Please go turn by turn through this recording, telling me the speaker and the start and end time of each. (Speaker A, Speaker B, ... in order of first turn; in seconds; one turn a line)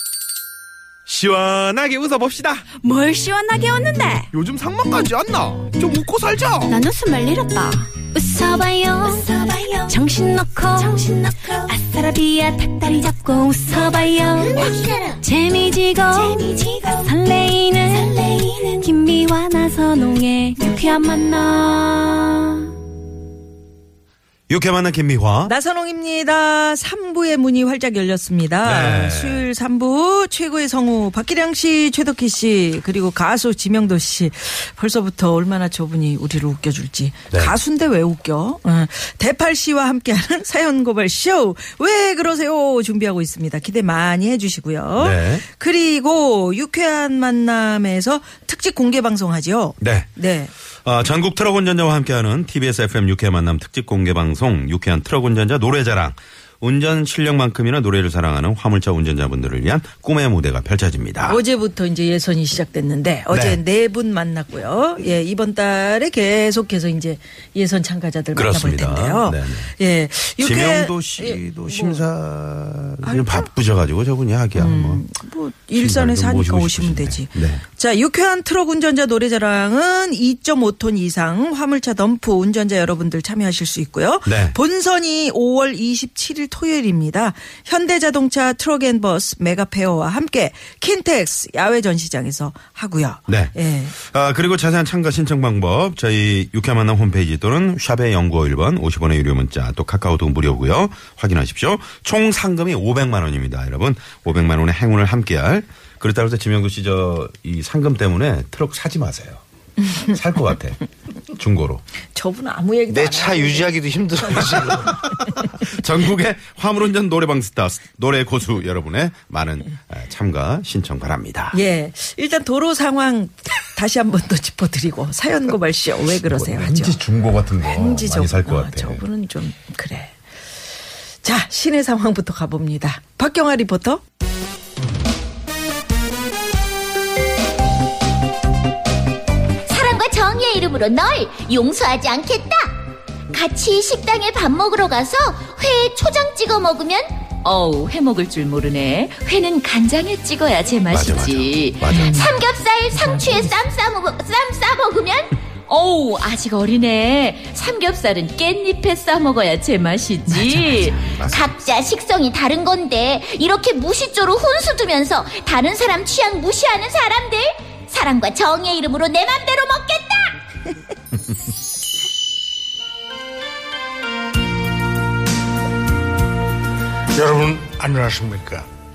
Speaker A: 1.1-2.6
Speaker B: 2.7-4.3
Speaker A: 4.3-6.8
Speaker B: 6.7-22.6
Speaker A: 24.5-25.5
Speaker C: 25.4-50.5
Speaker A: 28.6-29.5
Speaker A: 37.3-37.6
Speaker A: 45.0-45.4
Speaker A: 49.8-50.1
Speaker A: 50.8-61.4
Speaker C: 61.2-72.0
Speaker A: 63.3-63.6
Speaker A: 68.3-69.7
Speaker A: 70.4-75.0
Speaker C: 73.0-73.5
Speaker C: 74.5-93.9
Speaker A: 75.7-77.6
Speaker A: 84.2-84.6
Speaker A: 93.3-110.8
Speaker A: 111.3-111.8
Speaker C: 112.1-113.7
Speaker D: 112.9-115.1
Speaker A: 115.6-121.6
Speaker C: 121.5-127.0
Speaker A: 126.2-129.0
Speaker C: 127.6-130.2
Speaker C: 131.2-134.0
Speaker E: 139.7-142.8
Speaker E: 143.3-170.4
Speaker A: 150.9-152.3
Speaker C: 151.9-152.3
Speaker C: 153.0-153.5
Speaker A: 160.8-161.4
Speaker D: 177.1-178.7